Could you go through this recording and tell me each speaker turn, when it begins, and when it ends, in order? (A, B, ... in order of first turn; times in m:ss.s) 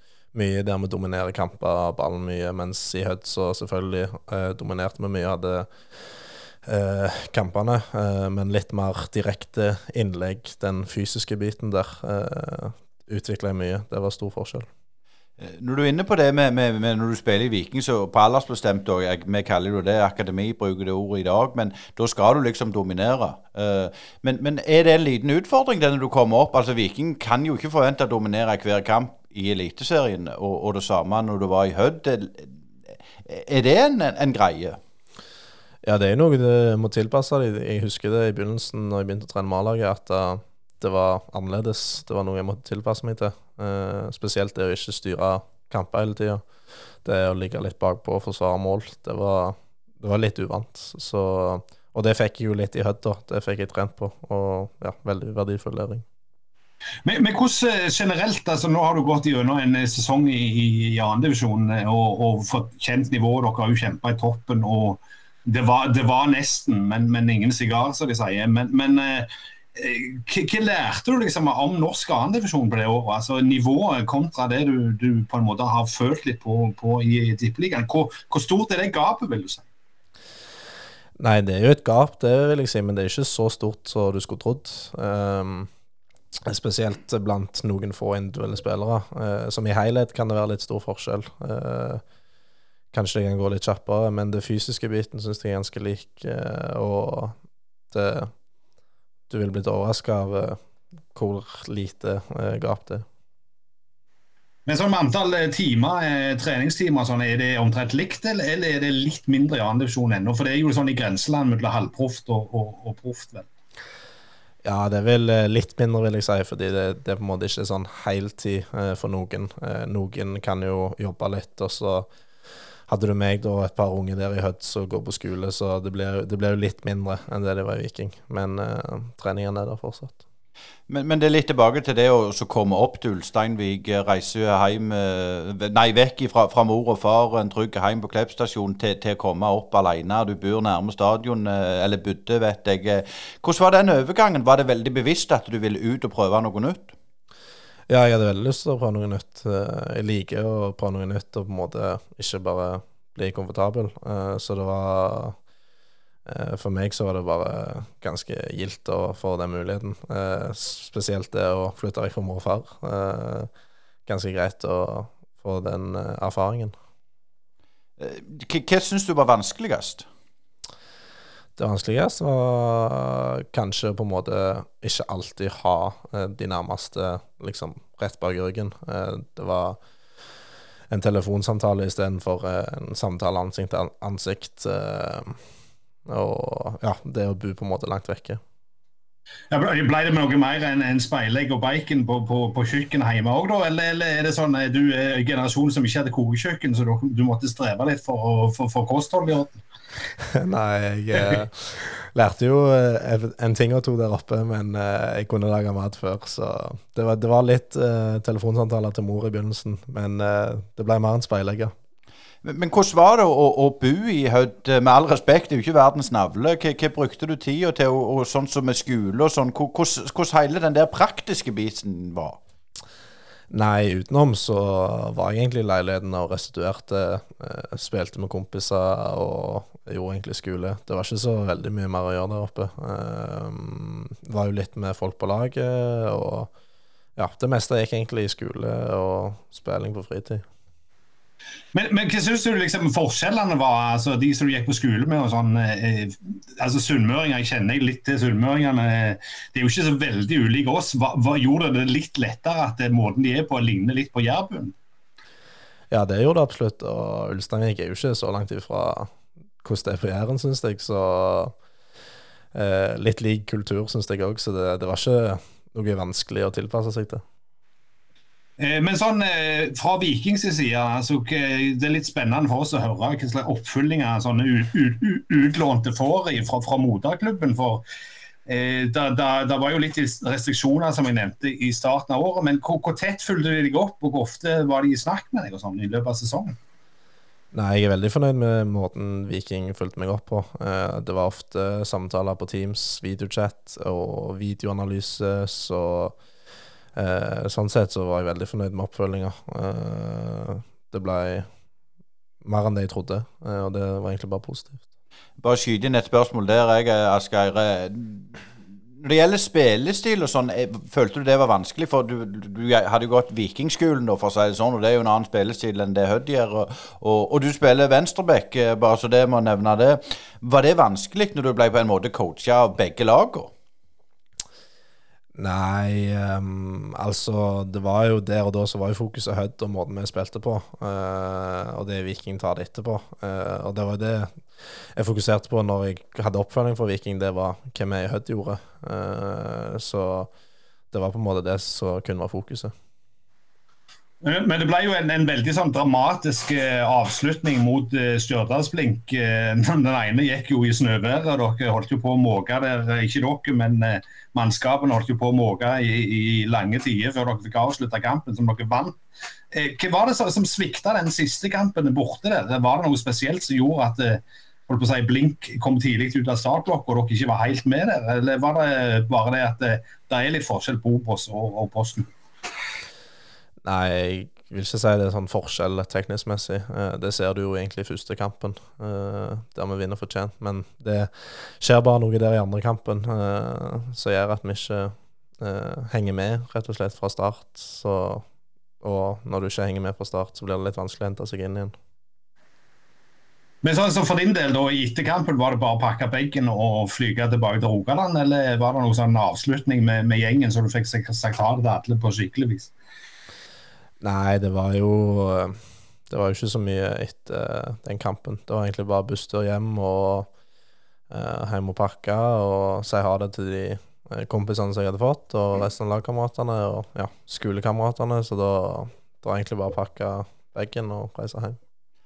0:00.3-0:05.7 A
0:06.6-0:14.7 A
0:15.4-0:32.5 B
0:33.2-0:34.8 B
0:35.8-0:46.4 A
0:47.0-0:56.0 A
0:57.0-1:19.6 C
1:21.2-1:25.7 A
1:26.5-1:32.0 A
1:32.9-1:37.4 A
1:37.9-1:38.3 A
1:39.3-1:40.6 A
1:41.1-1:43.0 A
1:44.6-1:53.5 C
1:54.6-2:02.1 A
2:02.9-2:10.2 A
2:10.9-2:26.9 B
2:27.9-2:35.4 A
2:36.2-2:43.5 A
2:44.0-2:46.7 A
2:48.0-2:50.0 B
2:51.6-2:59.8 A
3:00.9-3:05.4 A
3:06.0-3:08.4 A
3:09.5-3:19.6 C
3:20.2-3:31.7 A
3:32.4-3:42.4 B
3:43.5-3:56.5 A
3:57.2-4:00.4 A
4:01.7-4:14.7 C
4:15.9-4:21.5 A
4:22.5-4:27.2 A
4:28.6-4:37.8 C
4:38.4-4:46.5 C
4:47.5-4:56.2 A
4:56.9-5:01.5 A
5:02.4-5:04.8 A
5:05.4-5:08.4 B
5:09.0-5:23.5 B
5:25.3-5:34.4 A
5:34.9-5:40.3 A
5:40.9-5:42.7 A
5:44.2-5:59.0 C
5:59.5-6:12.1 C
6:13.6-6:28.2 A
6:28.8-6:31.7 A
6:33.6-6:42.7 C
6:44.0-6:50.3 A
6:51.1-7:01.6 A